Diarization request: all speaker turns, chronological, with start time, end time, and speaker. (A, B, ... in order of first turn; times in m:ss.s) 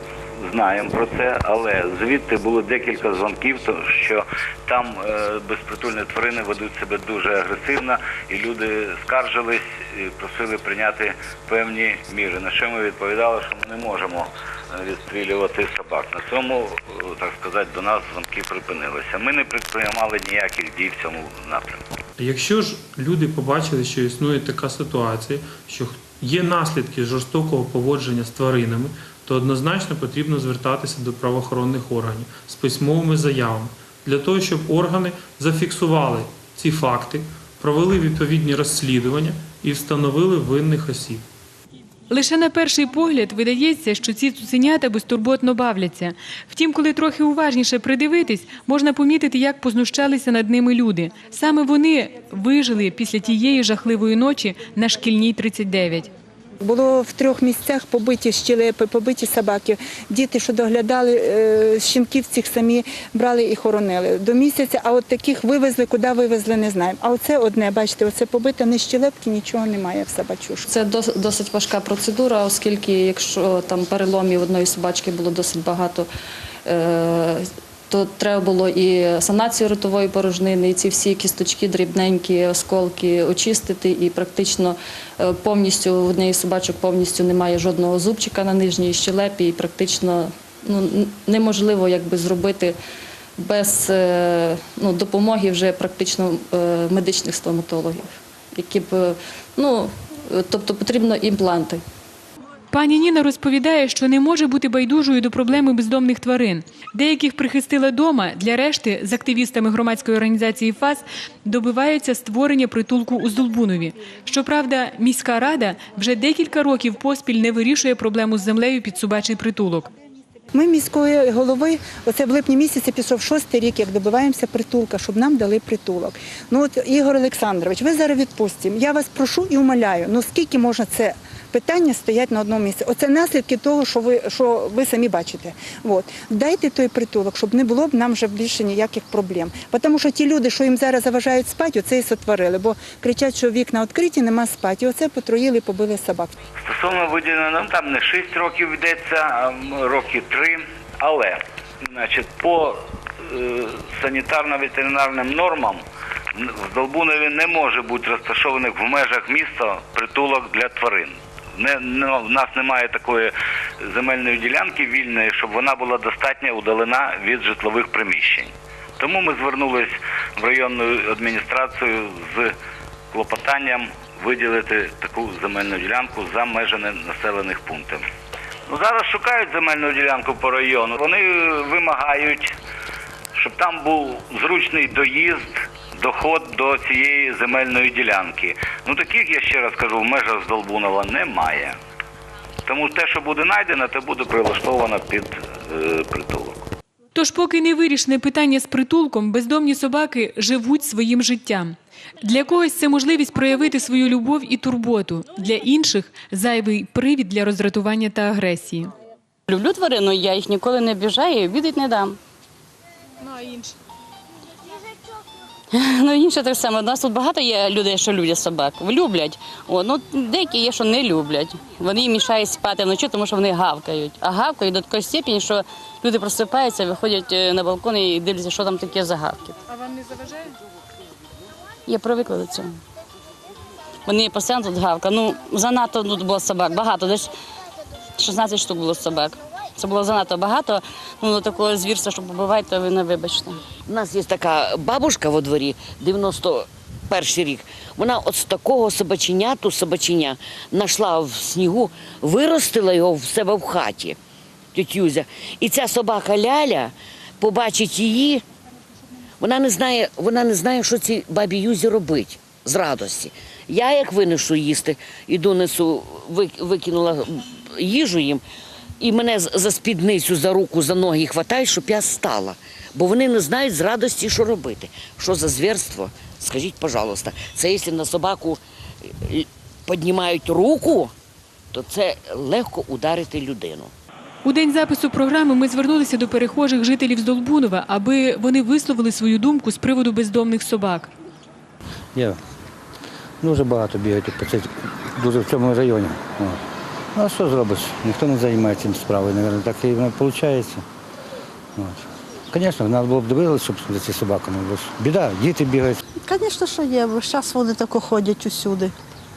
0:00.4-0:21.8 A
0:22.2-0:41.2 B
0:42.1-0:56.1 C
0:56.6-1:10.6 D
1:10.7-1:16.1 E
1:16.6-1:32.8 E
1:33.4-1:41.8 E
1:42.7-1:59.9 C
2:00.5-2:26.3 D
2:26.6-2:35.8 A
2:36.3-2:52.6 A
2:53.1-2:58.0 A
2:58.7-3:02.5 A
3:03.3-3:11.8 A
3:12.7-3:16.6 A
3:17.1-3:28.9 C
3:29.5-3:32.2 F
3:35.7-3:49.6 F
3:51.9-3:52.7 F
3:54.0-3:57.3 F
3:58.2-4:03.6 F
4:03.9-4:14.2 G
4:14.7-4:18.4 G
4:19.4-4:28.4 G
4:29.0-4:38.6 G
4:39.2-4:41.1 G
4:41.7-4:43.9 G
4:44.4-4:51.1 C
4:53.4-4:56.6 H
4:57.1-5:00.8 H
5:01.8-5:06.0 H
5:06.2-5:08.9 I